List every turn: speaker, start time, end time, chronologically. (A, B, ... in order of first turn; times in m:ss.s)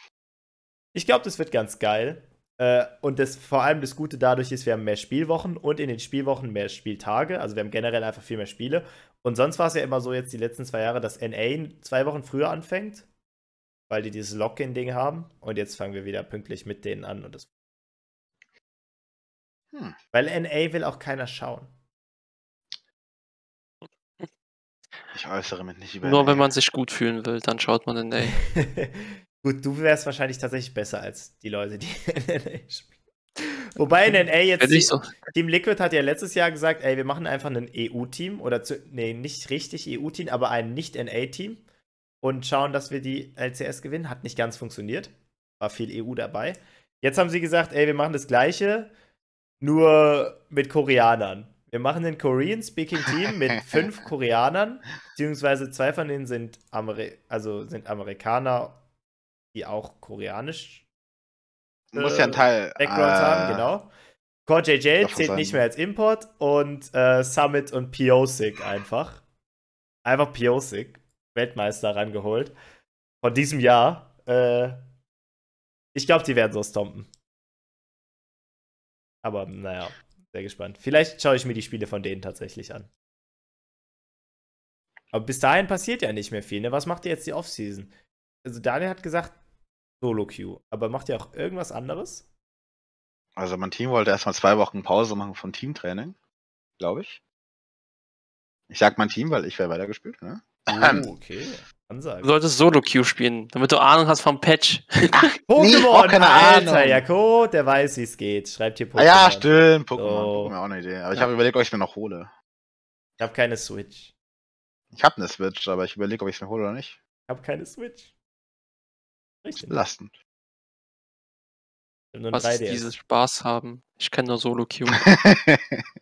0:00.9-0:13.0 A
0:13.9-0:17.5 A
0:20.1-0:21.7 A
0:25.1-0:26.4 B
0:26.0-0:28.4 C
0:28.5-0:32.9 A
0:33.4-0:41.6 A
0:34.6-0:35.0 C
0:42.2-0:48.9 A
0:49.6-0:58.8 A
0:59.5-1:00.8 A
1:01.9-1:03.7 B
1:01.9-1:03.9 A
1:04.5-1:09.2 A
1:05.0-1:05.6 B
1:10.0-1:12.5 A
1:13.2-1:14.8 A
1:16.0-1:17.1 A
1:19.2-1:22.9 A
1:25.1-1:27.9 A
1:28.4-1:29.4 A
1:30.0-1:32.2 A
1:33.4-1:36.2 B
1:36.8-1:37.2 B
1:38.7-1:41.0 B
1:40.7-1:42.3 A
1:42.2-1:45.2 C
1:45.1-1:47.0 B
1:45.5-1:50.5 A
1:49.0-1:52.3 B
1:53.2-1:54.1 A
1:54.9-1:57.0 B
1:57.3-1:58.1 A
1:59.4-1:59.8 A
1:59.6-2:00.1 B
2:02.1-2:03.0 A
2:02.3-2:05.0 C
2:05.0-2:05.8 B